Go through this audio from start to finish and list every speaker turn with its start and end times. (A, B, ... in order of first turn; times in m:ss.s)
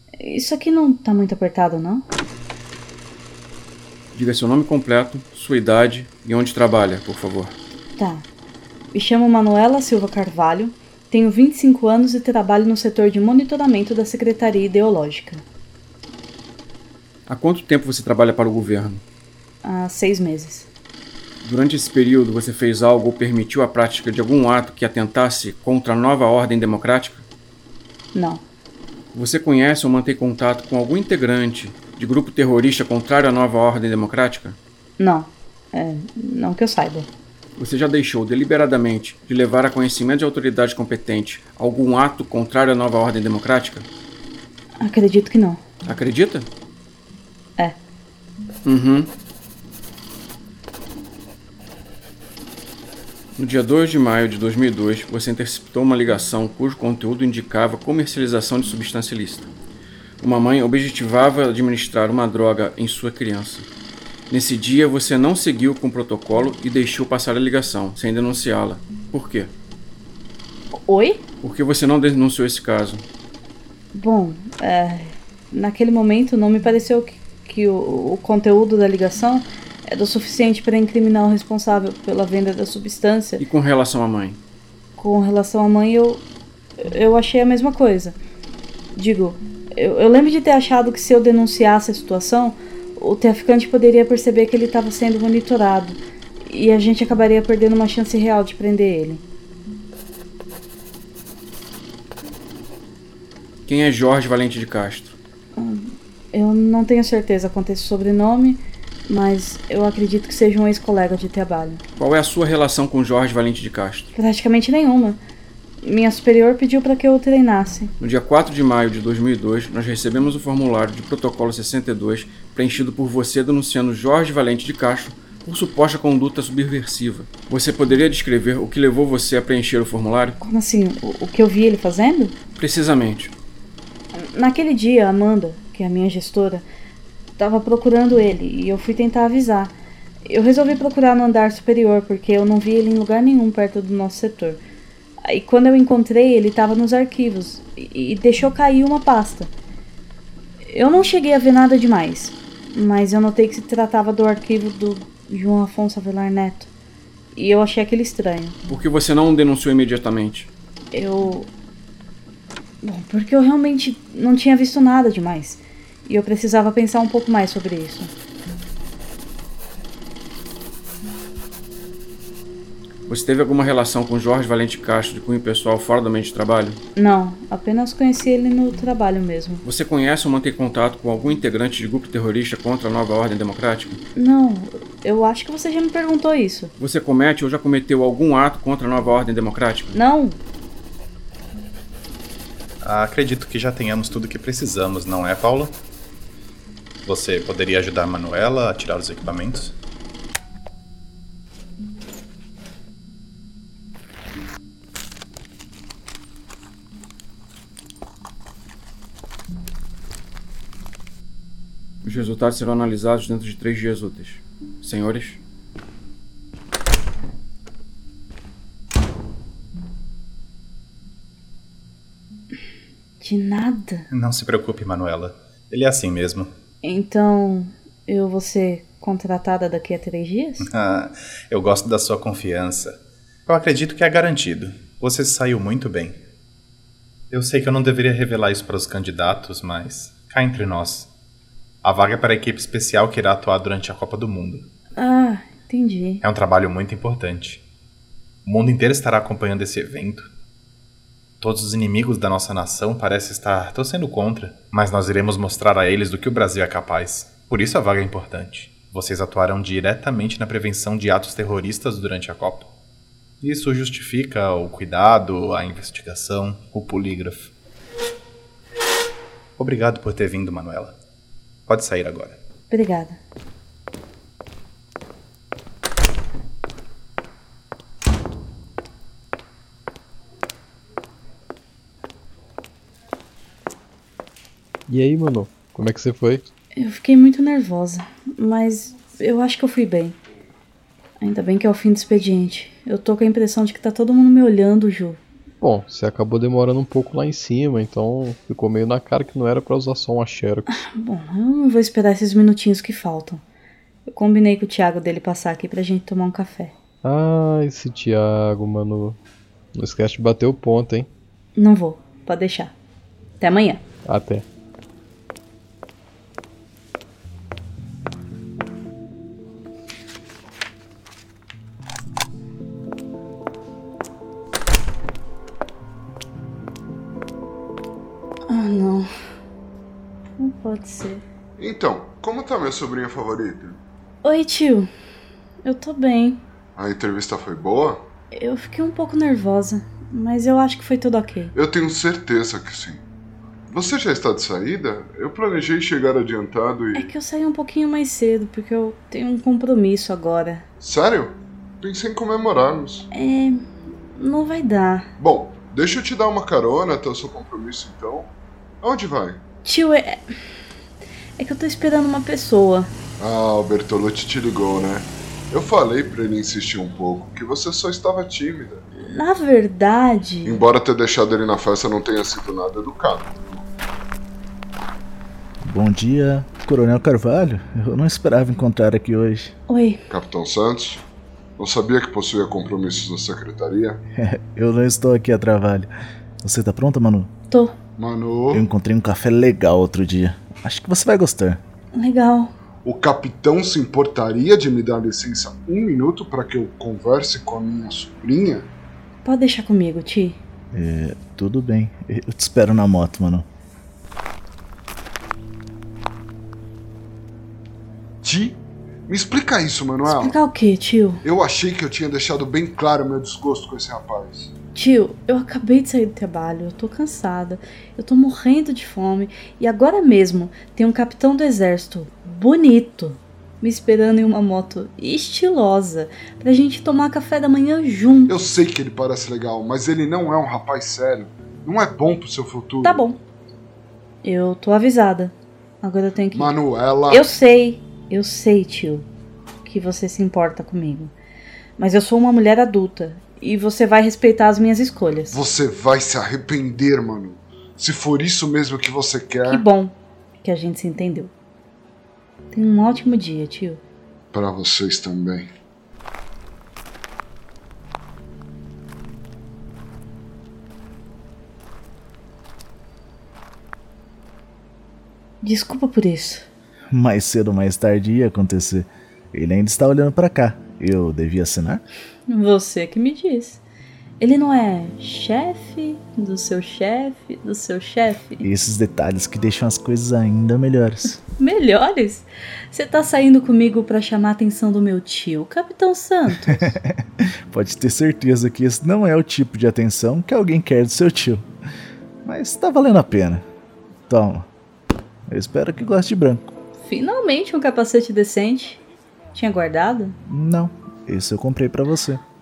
0:00.2-0:02.0 A
0:04.1-0:07.5 B
0:08.0-0:08.2 A
0:08.9-0:15.4 A
0:17.3-0:19.0 B
0:19.6-0:20.7 A
0:21.4-0:27.2 B
0:28.1-0:28.4 A
0:29.1-0:34.6 B
0:35.0-0:37.1 A
0:37.6-0:43.8 B
0:44.8-0:45.6 A
0:45.8-0:46.5 B
0:48.6-0:49.1 B
0:53.4-0:59.5 B
1:00.2-1:03.7 B
1:04.3-1:09.5 B
1:10.8-1:11.2 A
1:11.4-1:13.0 B
1:13.9-1:23.4 A
1:23.4-1:24.4 B
1:25.0-1:26.2 A
1:26.8-1:28.2 A
1:28.9-1:39.2 A
1:43.6-1:45.2 B
1:45.5-1:51.8 A
1:52.0-1:54.1 B
1:54.1-1:55.2 A
1:55.8-1:57.9 A
1:58.0-2:10.4 B
2:10.4-2:12.3 A
2:12.6-2:13.3 B
2:14.1-2:16.6 A
2:17.4-2:24.6 A
2:25.2-2:29.5 A
2:30.7-2:36.7 A
2:37.3-2:38.6 A
2:38.7-2:40.5 B
2:40.9-2:41.5 A
2:42.8-2:48.1 A
2:53.1-2:56.8 B
2:57.0-2:59.6 A
2:59.6-3:04.0 B
3:04.1-3:06.7 A
3:06.8-3:10.0 B
3:09.9-3:10.4 A
3:12.8-3:15.8 C
3:17.0-3:19.7 C
3:32.0-3:35.4 B
3:43.2-3:44.1 A
3:44.1-3:46.5 C
3:46.8-3:50.6 A
3:50.6-3:56.2 C
3:57.3-4:01.1 C
4:01.8-4:04.7 C
4:05.0-4:06.2 A
4:06.2-4:07.6 C
4:08.4-4:10.3 C
4:11.4-4:22.7 C
4:23.4-4:27.5 C
4:29.6-4:31.0 C
4:31.7-4:32.4 C
4:32.7-4:33.2 A
4:44.9-4:46.4 D
4:46.8-4:50.2 A
4:51.2-4:55.2 A
4:55.6-5:00.8 D
5:00.7-5:03.4 A
5:04.0-5:06.7 A
5:07.0-5:09.2 D
5:09.7-5:11.1 D
5:11.6-5:12.7 A
5:13.4-5:13.8 A
5:14.0-5:14.4 D
5:28.5-5:29.1 A
5:30.4-5:31.2 A
5:31.6-5:33.8 E
5:34.2-5:34.9 A
5:35.6-5:36.4 A
5:36.8-5:38.0 E
5:38.3-5:41.5 A
5:41.5-5:43.0 E
5:43.7-5:47.1 E
5:46.9-5:50.6 A
5:50.8-5:53.0 E
5:53.1-5:55.1 A
5:55.2-5:59.4 E
5:59.6-6:00.2 A
6:01.4-6:02.9 A
6:03.2-6:08.8 E
6:09.0-6:10.6 A
6:10.4-6:13.6 E
6:15.6-6:19.5 F
6:19.7-6:20.0 A
6:20.1-6:21.0 E
6:21.6-6:24.0 E
6:24.2-6:25.9 F
6:26.4-6:27.3 F
6:27.5-6:27.8 A
6:28.0-6:28.6 E
6:28.5-6:31.6 F
6:31.9-6:32.5 A
6:32.8-6:38.7 E
6:39.2-6:40.4 A
6:40.7-6:43.4 F
6:48.2-6:50.4 E
6:50.0-6:51.2 A
6:51.2-6:54.5 E
6:54.7-7:08.3 A
7:08.3-7:13.1 E
7:12.8-7:13.2 A
7:14.2-7:16.6 A
7:16.3-7:17.2 E
7:17.1-7:19.1 A
7:19.6-7:21.1 A
7:21.8-7:25.4 A
7:25.3-7:29.6 E
7:29.4-7:31.3 A
7:32.5-7:33.8 A
7:34.3-7:35.5 E
7:45.4-7:46.5 A
7:46.9-7:51.8 F
7:52.3-7:53.6 A
7:54.2-7:58.5 A
7:58.4-8:01.2 F
8:01.2-8:06.8 A
8:06.4-8:11.4 F
8:12.2-8:13.4 F
8:14.1-8:14.4 F
8:15.3-8:16.5 F
8:16.8-8:18.8 A
8:19.3-8:20.2 A
8:20.3-8:22.2 F